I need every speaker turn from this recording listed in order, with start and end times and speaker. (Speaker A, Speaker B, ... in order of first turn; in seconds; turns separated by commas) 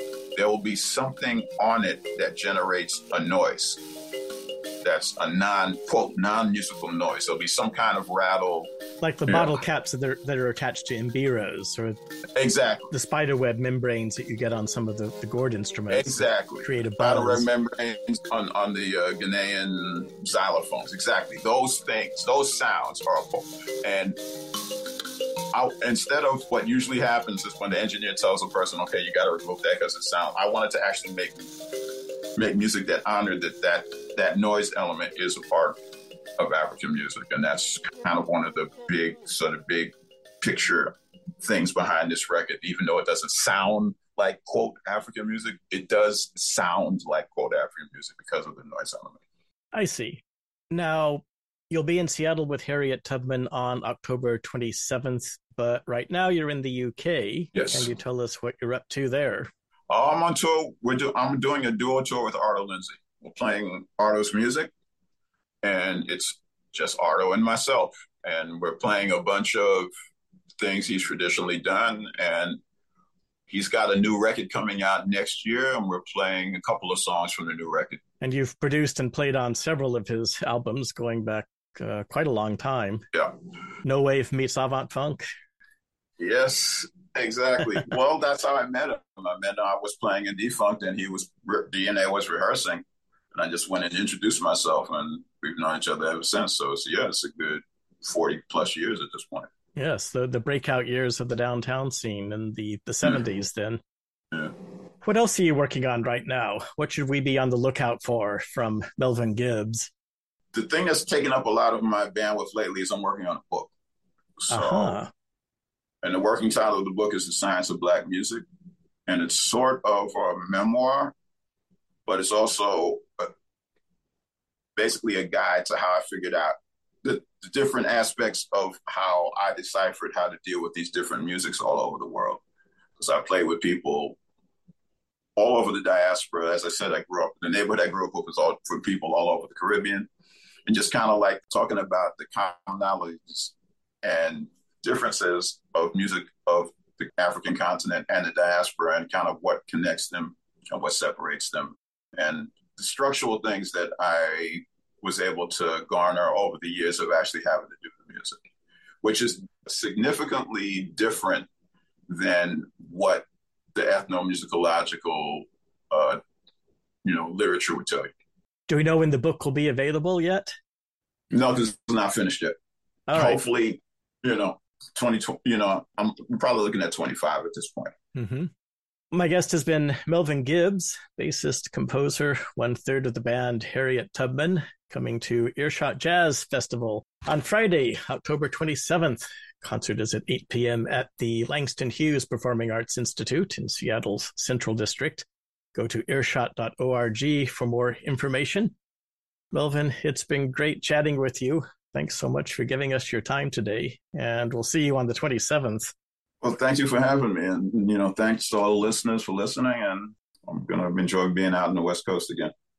Speaker A: 0.3-3.8, Speaker A: 4.8-8.7, Speaker B: 9.0-12.0, Speaker A: 9.3-9.6, Speaker A: 12.3-12.9, Speaker B: 12.9-17.5, Speaker A: 15.9-24.2, Speaker A: 25.5-31.5, Speaker A: 32.4-35.8, Speaker A: 36.4-49.2, Speaker B: 49.7-59.5, Speaker A: 57.5-57.9, Speaker A: 59.9-64.7, Speaker A: 65.6-69.9, Speaker A: 70.6-72.6, Speaker A: 73.5-78.0, Speaker B: 78.2-83.0, Speaker B: 83.8-85.2, Speaker A: 86.2-99.5, Speaker B: 99.8-103.8, Speaker B: 105.0-109.9, Speaker A: 110.5-113.7, Speaker A: 114.4-115.0, Speaker B: 114.5-115.1, Speaker A: 116.0-118.4, Speaker A: 119.1-121.1, Speaker A: 122.0-123.3, Speaker A: 124.8-132.4, Speaker A: 133.0-134.2, Speaker A: 135.3-140.1, Speaker A: 140.7-158.4, Speaker A: 159.0-161.5, Speaker A: 162.1-166.2, Speaker A: 167.0-168.1, Speaker B: 168.7-170.5, Speaker A: 171.3-172.6, Speaker B: 173.1-173.4, Speaker A: 173.1-177.9, Speaker B: 178.1-178.5, Speaker B: 179.1-198.7, Speaker B: 199.5-205.9, Speaker A: 206.4-212.5